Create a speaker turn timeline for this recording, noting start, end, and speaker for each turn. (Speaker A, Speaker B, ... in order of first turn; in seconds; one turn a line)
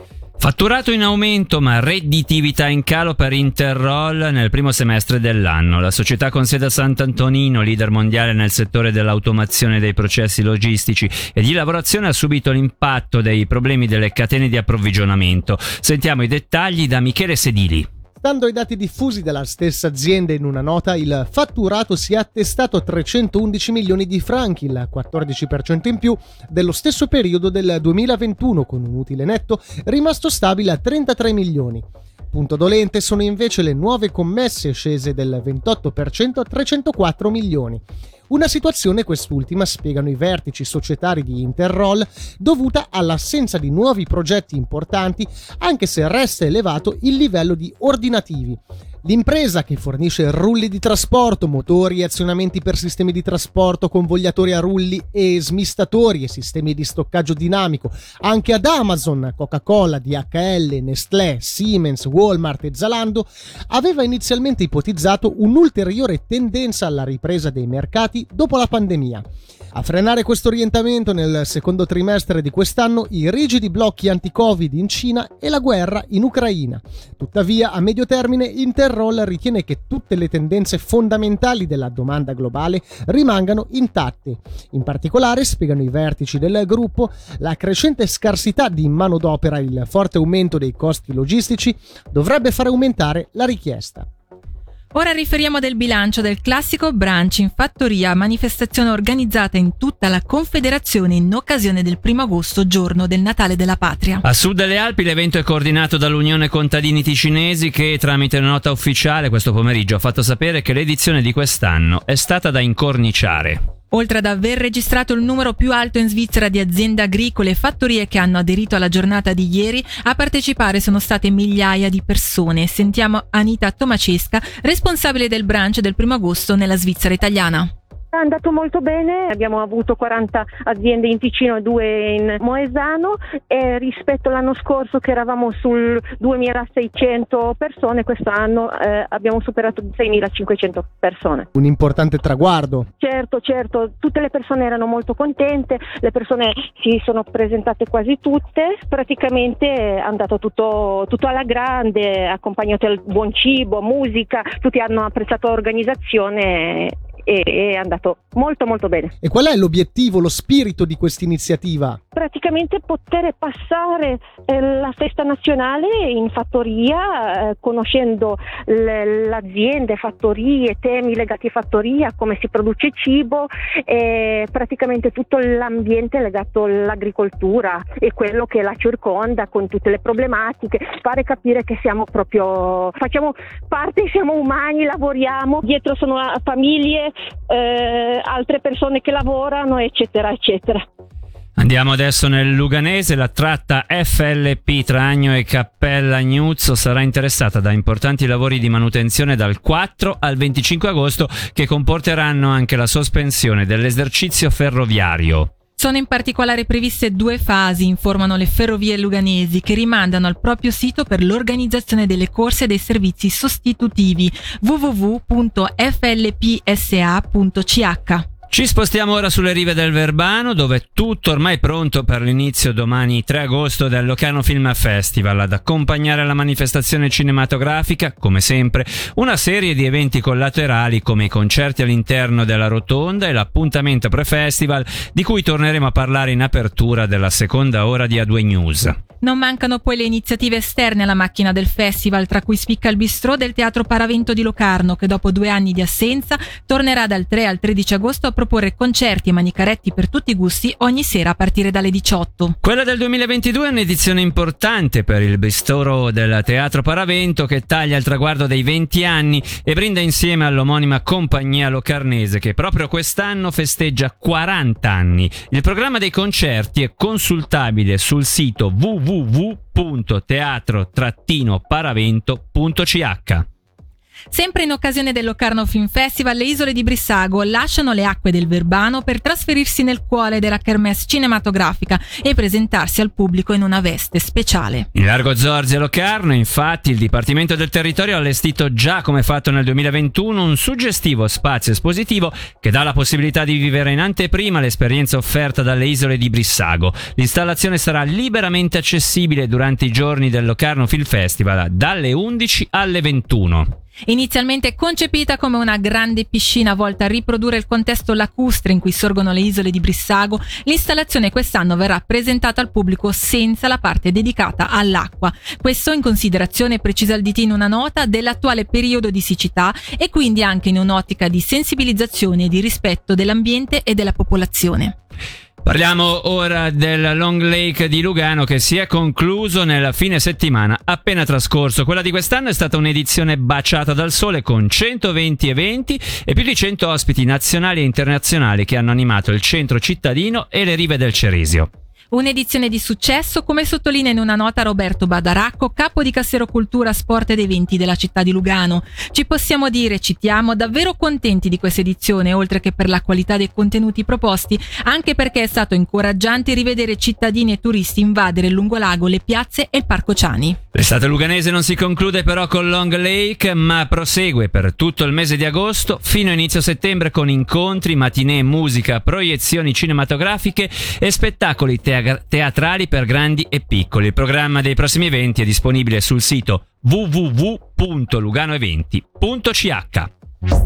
Speaker A: 0.4-17.9
Speaker B: 18.2-94.1
Speaker C: 94.9-104.2
Speaker A: 104.2-113.6
Speaker C: 113.9-127.7
Speaker D: 128.1-141.5
Speaker B: 141.6-142.9
Speaker D: 143.0-159.1
Speaker B: 159.2-162.0
Speaker D: 162.2-190.8
Speaker A: 191.6-205.5
Speaker C: 205.8-218.2
Speaker A: 218.5-239.0
Speaker C: 239.2-252.6
Speaker A: 252.6-273.4
Speaker C: 274.3-284.9
Speaker A: 284.9-303.7
Speaker C: 304.1-325.0
Speaker A: 325.6-341.7
Speaker C: 342.1-360.6
Speaker A: 360.8-380.1